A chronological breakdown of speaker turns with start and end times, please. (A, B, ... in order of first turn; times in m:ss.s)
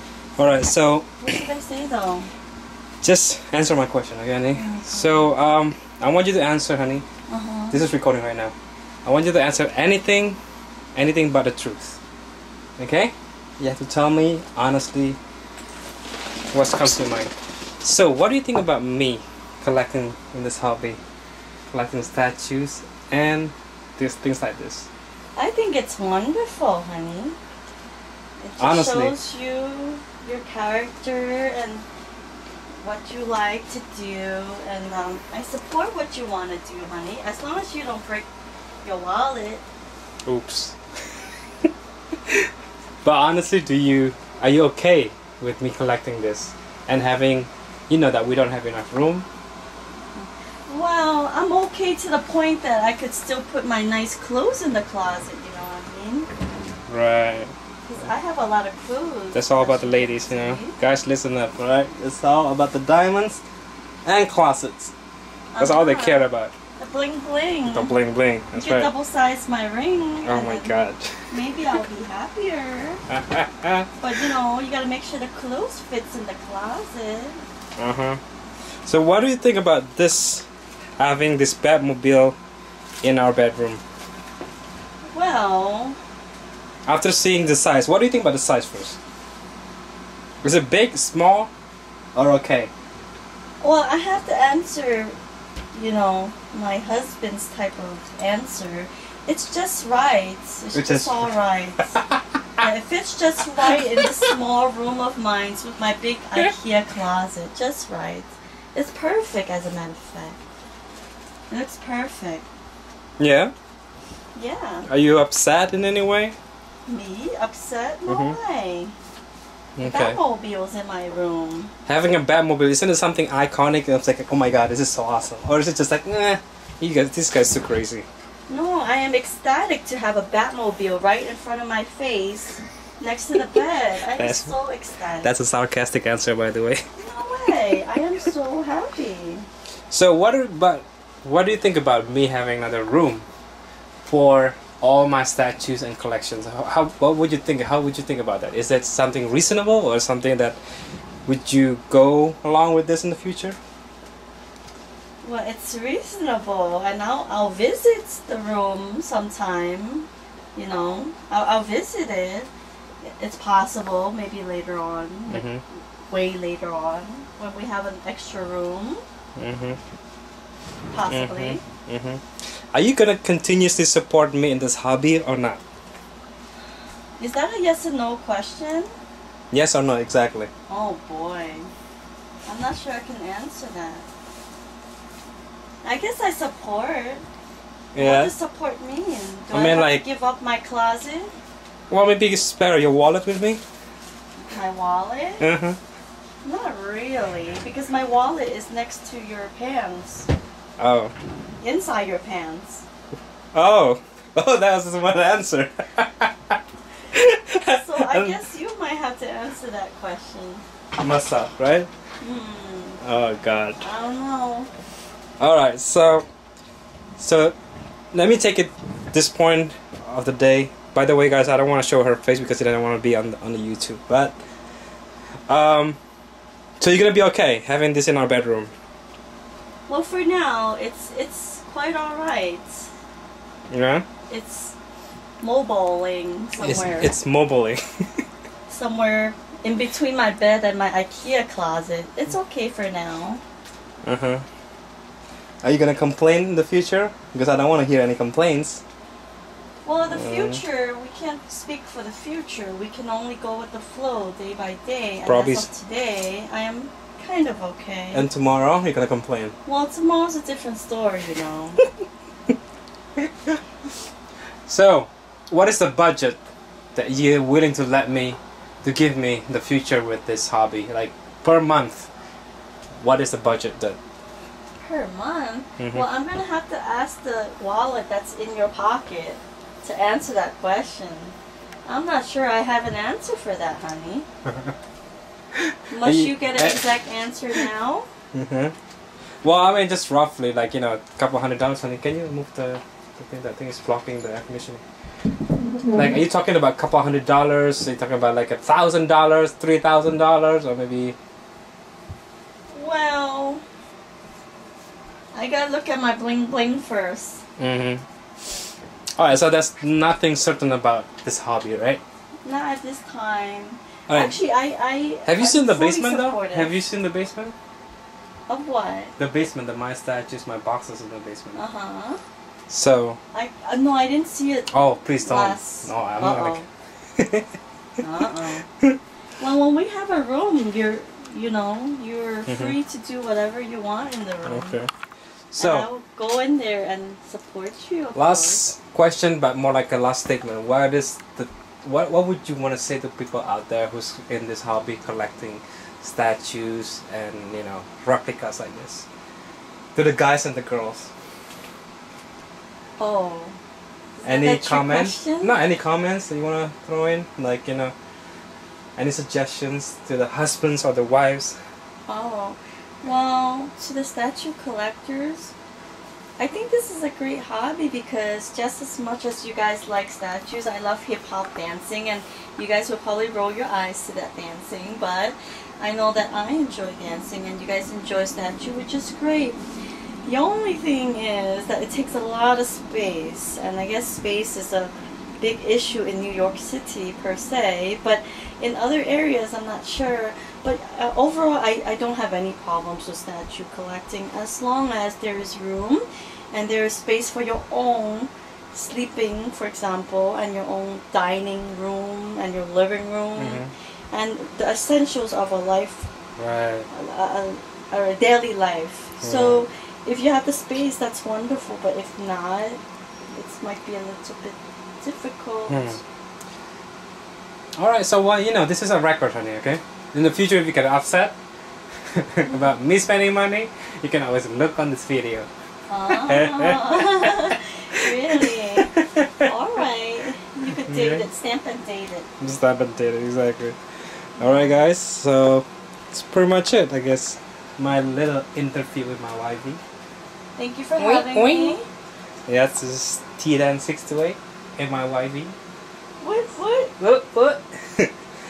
0:00.4-0:01.4 A
0:01.2-0:02.3 B
0:03.0-0:07.0 A
0:04.5-0:05.3 B
0:07.3-0:07.8 B
0:07.7-0:08.5 A
0:09.0-0:10.4 A
0:10.9-0:12.0 A
0:12.8-0:15.2 A
0:16.5-0:17.3 A
0:17.8-0:21.0 A
0:21.7-0:24.9 A
0:25.4-0:27.4 B
0:28.4-0:31.8 B
0:28.6-0:29.2 A
0:32.8-0:38.3 B
0:38.8-0:39.6 B
0:40.2-0:40.8 A
0:43.0-0:49.3 A
0:50.1-0:56.3 B
0:56.9-0:57.5 A
0:57.9-1:00.8 B
0:59.3-1:03.4 A
1:04.0-1:04.9 A
1:05.5-1:06.2 B
1:05.6-1:06.5 A
1:06.8-1:07.9 B
1:07.7-1:08.9 A
1:08.5-1:10.8 B
1:10.2-1:11.2 A
1:11.3-1:13.0 B
1:13.1-1:13.9 A
1:14.0-1:17.4 B
1:17.8-1:18.2 A
1:18.8-1:20.5 A
1:21.0-1:22.4 A
1:23.0-1:23.8 A
1:25.1-1:26.0 B
1:26.8-1:29.0 A
1:30.4-1:31.5 A
1:32.1-1:32.7 A
1:33.6-1:35.2 B
1:35.7-1:41.9 B
1:40.7-1:42.2 A
1:42.6-1:50.4 B
1:51.5-1:52.5 B
1:53.2-1:53.5 A
1:54.3-1:54.9 B
1:54.9-1:56.3 A
1:56.9-1:58.9 B
1:58.1-1:58.4 A
1:59.8-2:00.2 A
1:59.8-2:01.7 B
2:01.8-2:08.1 A
2:08.5-2:15.3 B
2:14.2-2:14.5 A
2:15.2-2:16.8 A
2:17.0-2:19.5 B
2:19.9-2:23.2 A
2:24.0-2:30.6 A
2:31.2-2:33.6 A
2:35.2-2:42.5 B
2:43.0-2:45.4 B
2:45.3-2:45.6 A
2:46.1-2:49.0 B
2:49.4-2:49.8 A
2:50.9-2:51.6 B
2:51.1-2:55.6 A
2:57.2-2:58.9 B
2:59.5-3:00.5 A
3:00.7-3:01.7 B
3:02.4-3:04.1 B
3:05.8-3:07.2 B
3:07.9-3:08.3 A
3:08.0-3:11.3 B
3:09.5-3:10.0 A
3:11.9-3:13.6 A
3:14.4-3:15.4 B
3:15.4-3:15.8 A
3:16.4-3:20.3 B
3:20.8-3:21.1 A
3:21.6-3:22.8 B
3:23.5-3:26.6 A
3:27.1-3:28.4 A
3:27.5-3:30.6 B
3:31.0-3:31.9 A
3:32.2-3:33.0 B
3:33.0-3:33.8 A
3:33.8-3:34.7 B
3:35.4-3:36.2 A
3:37.2-3:37.5 A
3:38.1-3:44.3 A
3:45.5-3:46.0 A
3:46.8-3:48.7 A
3:49.9-3:52.9 B
3:53.7-3:54.0 A
3:54.3-3:54.7 B
3:55.4-3:57.1 B
3:56.6-3:58.2 A
3:58.7-4:03.4 B
4:04.0-4:04.4 A
4:05.6-4:08.8 A
4:09.8-4:18.3 B
4:10.1-4:10.6 A
4:15.2-4:15.7 A
4:18.1-4:19.5 A
4:19.6-4:21.8 B
4:24.7-4:26.4 A
4:26.9-4:32.1 A
4:33.0-4:34.0 A
4:34.8-4:44.2 B
4:35.8-4:36.0 A
4:45.9-4:48.1 B
4:46.0-4:46.8 A
4:48.3-4:48.7 A
4:49.4-4:54.8 A
4:55.8-5:01.2 A
5:02.7-5:03.6 B
5:05.3-5:07.4 B
5:07.6-5:08.0 A
5:09.2-5:12.0 A
5:12.4-5:16.8 B
5:14.1-5:14.4 A
5:15.2-5:17.5 A
5:18.5-5:19.1 B
5:19.2-5:21.6 A
5:21.5-5:22.2 B
5:22.7-5:23.2 A
5:23.3-5:26.7 B
5:24.7-5:26.6 A
5:27.2-5:27.4 A
5:28.0-5:28.6 B
5:29.4-5:34.8 B
5:32.5-5:32.7 A
5:34.4-5:34.9 A
5:35.5-5:35.9 A
5:35.6-5:38.6 B
5:38.1-5:49.0 A
5:49.9-5:51.1 A
5:53.0-5:53.6 B
5:54.2-5:55.5 B
5:54.2-5:57.9 A
5:59.0-6:01.6 A
6:02.1-6:05.5 B
6:06.4-6:19.6 B
6:20.2-6:46.1 B
6:43.4-6:43.7 A
6:46.4-6:46.9 A
6:46.9-6:56.0 B
6:49.2-6:49.6 A
6:55.7-6:56.0 A
6:57.8-7:01.4 A
7:02.1-7:05.5 A
7:05.9-7:12.3 B
7:06.0-7:07.4 A
7:08.0-7:09.5 A
7:10.8-7:11.2 A
7:12.4-7:13.8 A
7:14.4-7:19.8 A
7:14.4-7:14.7 B
7:20.6-7:21.8 B
7:21.0-7:21.8 A
7:22.5-7:25.5 A
7:26.2-7:26.9 B
7:27.0-7:28.1 A